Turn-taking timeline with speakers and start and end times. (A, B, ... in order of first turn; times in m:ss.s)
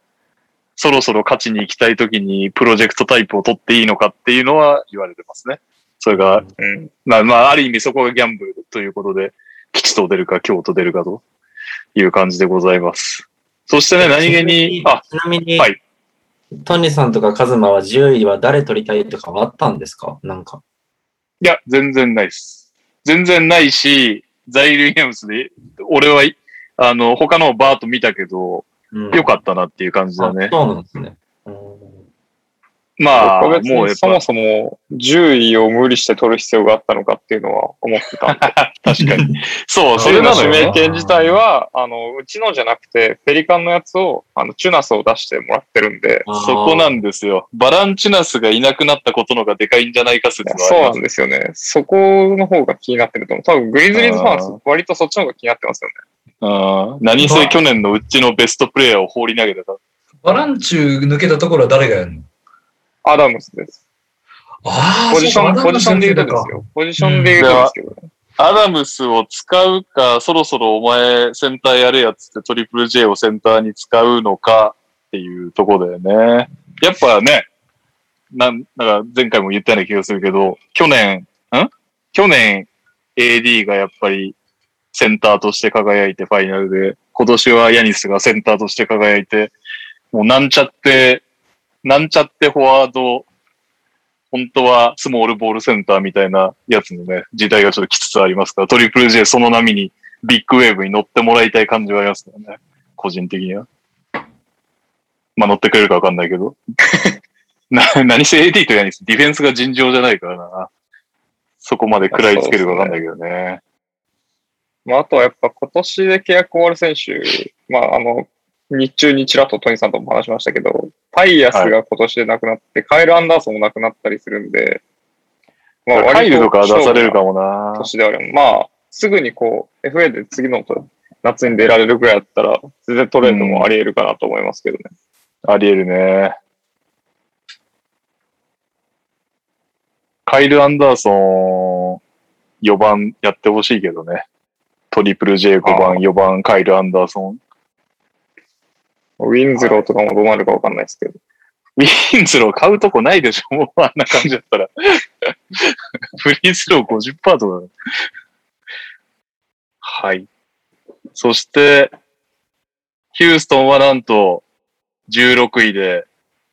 0:00.8-0:06.4 A
0:06.1-0:06.4 B
0:06.6-0:06.9 C
0:07.0-0:11.2 A
0:11.9-0:15.0 A
0:14.0-0:15.7 B
0:16.5-0:20.6 B
0:21.4-0:30.5 A
0:28.9-0:29.3 B
0:30.2-0:32.0 B
0:33.0-0:34.2 A
0:33.1-0:38.5 C
0:38.3-0:40.7 A
0:39.0-0:39.3 B
0:40.0-0:40.8 D
0:40.0-0:46.3 C
0:40.8-0:41.1 B
0:46.2-0:47.0 B
0:46.3-0:51.0 A
0:50.4-0:56.0 C
0:53.9-0:54.6 A
0:56.4-0:59.8 A
0:57.2-0:57.6 D
1:00.2-1:02.2 D
1:03.0-1:03.8 C
1:04.6-1:07.4 D
1:05.1-1:08.1 C
1:07.4-1:07.7 A
1:08.4-1:17.5 A
1:18.3-1:24.3 A
1:24.9-1:29.5 A
1:30.1-1:31.2 A
1:31.8-1:33.2 A
1:34.3-1:43.6 A
1:45.4-1:46.6 A
1:47.7-1:50.7 A
1:51.6-1:53.6 A
1:52.1-1:53.0 C
1:54.8-2:04.8 C
2:05.9-2:07.2 C
2:05.9-2:07.9 A
2:07.8-2:14.9 C
2:13.2-2:13.7 A
2:15.4-2:16.3 A
2:20.2-2:22.0 A
2:22.6-2:24.2 A
2:24.9-2:27.4 A
2:25.6-2:26.0 C
2:29.2-2:31.2 C
2:29.6-2:29.8 A
2:31.8-2:37.7 A
2:39.8-2:40.2 A
2:41.2-2:41.9 A
2:43.1-2:44.4 A
2:45.1-2:46.0 A